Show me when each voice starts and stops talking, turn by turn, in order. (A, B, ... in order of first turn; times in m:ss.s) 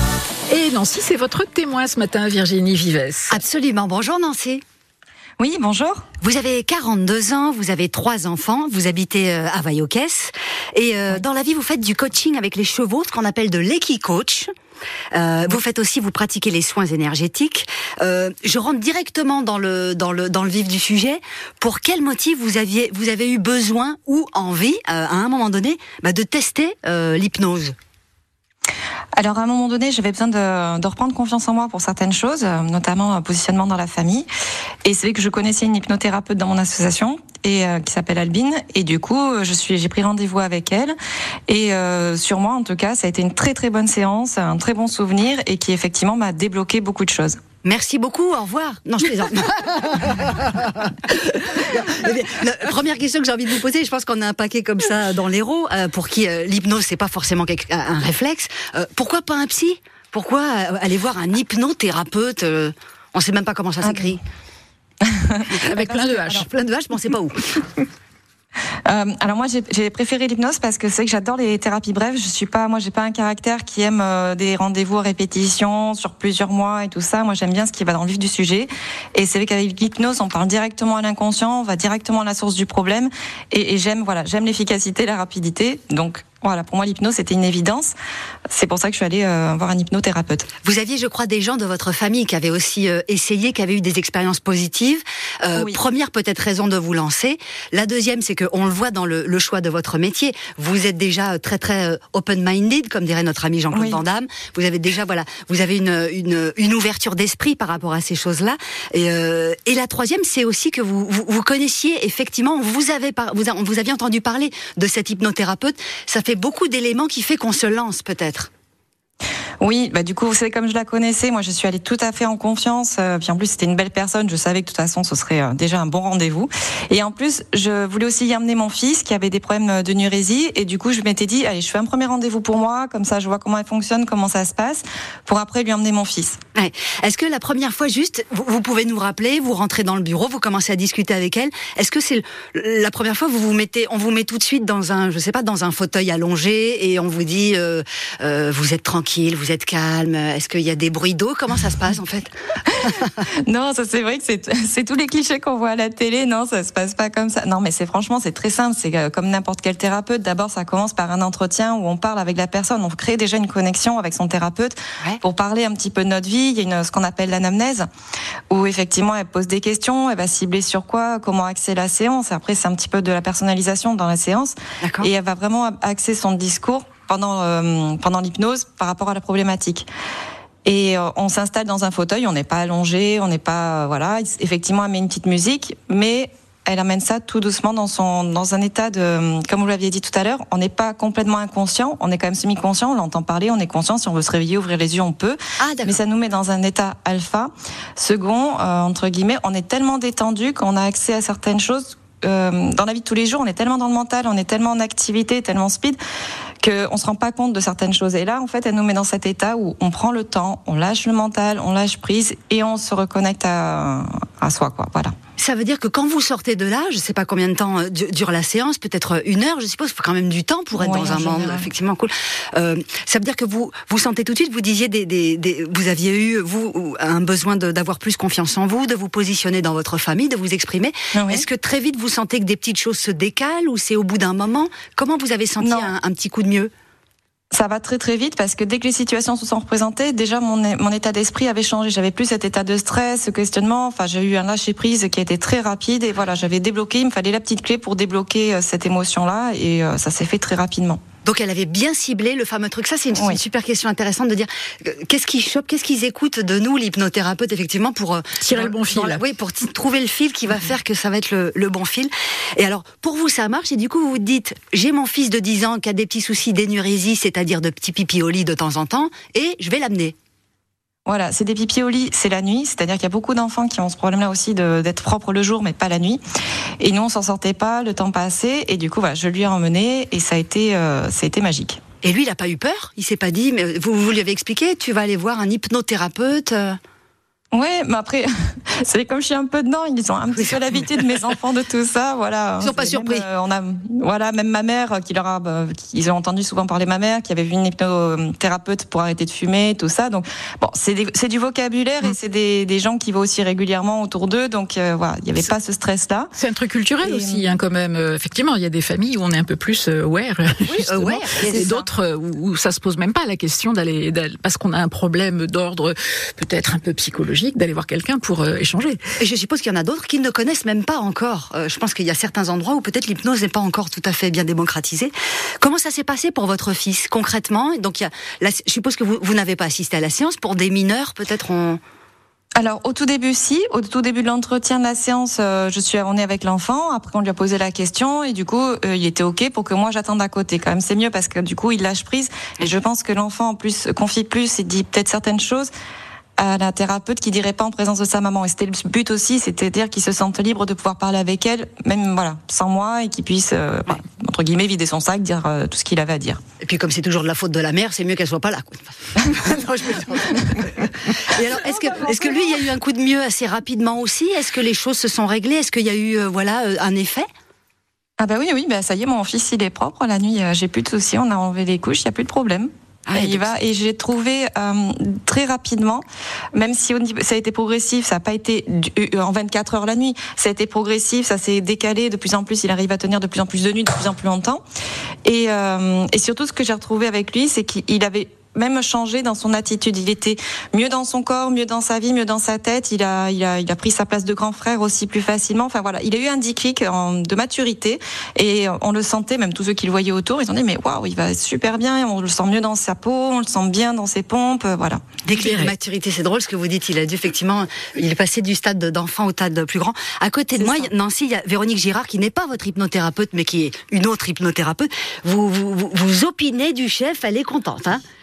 0:00.5-0:03.4 A
0:03.3-0:04.6 B
0:05.4-0:06.0 C
0:06.2-0:14.5 B
0:15.1-0:27.7 B
0:29.1-0:34.3 C
0:34.8-0:41.0 C
0:41.5-0:47.4 C
0:47.6-1:04.2 B
1:03.8-1:04.1 C
1:05.0-1:06.4 C
1:05.5-1:07.6 B
1:08.8-1:27.9 C
1:28.5-1:30.5 C
1:30.6-1:58.5 B
1:43.7-1:44.0 C
1:59.6-2:16.4 C
2:16.5-2:32.3 B
2:33.5-2:47.9 C
2:48.5-2:59.9 C
2:54.8-2:55.1 B
3:00.6-3:26.0 C
3:15.6-3:16.0 B
3:26.6-3:35.1 C
3:35.4-3:56.7 B
3:40.7-3:41.7 C
3:51.1-3:51.4 C
3:55.6-3:55.9 C
3:57.5-4:11.0 C
4:11.2-4:30.1 B
4:13.2-4:13.4 C
4:18.4-4:19.2 A
4:31.0-4:36.2 C
4:36.8-4:41.8 C
4:42.0-4:46.8 B
4:47.5-5:06.3 C
4:50.4-4:51.0 B
4:52.6-4:53.3 B
5:06.4-5:19.0 A
5:07.0-5:07.5 C
5:10.7-5:11.9 B
5:19.2-5:31.8 B
5:32.6-5:45.7 C
5:46.4-5:56.4 C
5:56.6-6:07.3 B
6:01.6-6:02.6 C
6:08.2-6:24.6 C
6:13.1-6:13.5 B
6:25.2-6:45.0 C
6:45.2-6:58.0 B
6:45.4-6:45.7 A